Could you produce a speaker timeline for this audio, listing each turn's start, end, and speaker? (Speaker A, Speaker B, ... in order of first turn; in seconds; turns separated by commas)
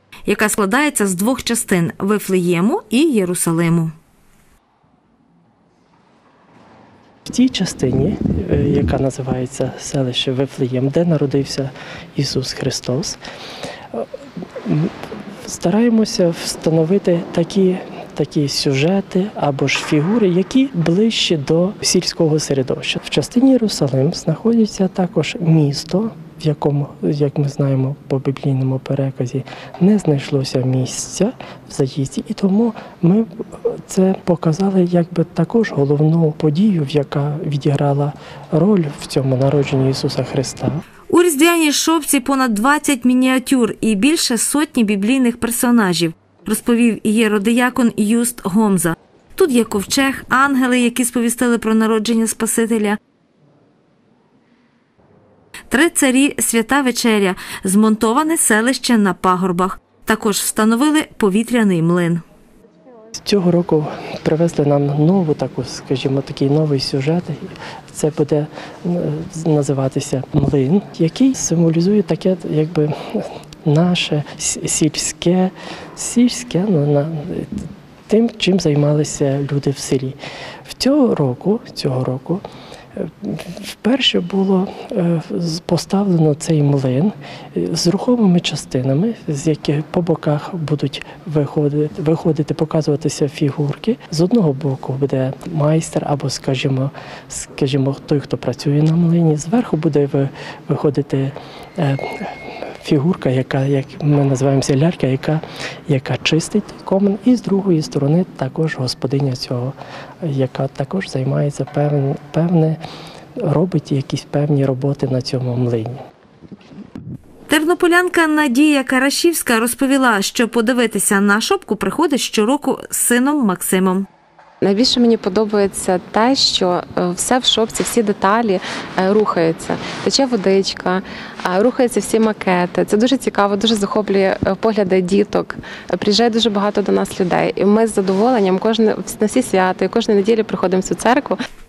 Speaker A: 0.2-3.9, Speaker B: 7.2-13.2, Speaker B: 14.6-40.8, Speaker A: 41.1-53.0, Speaker A: 55.7-62.2, Speaker B: 63.2-82.4, Speaker B: 83.0-112.8, Speaker B: 113.4-116.0, Speaker A: 117.5-124.0, Speaker C: 124.6-141.4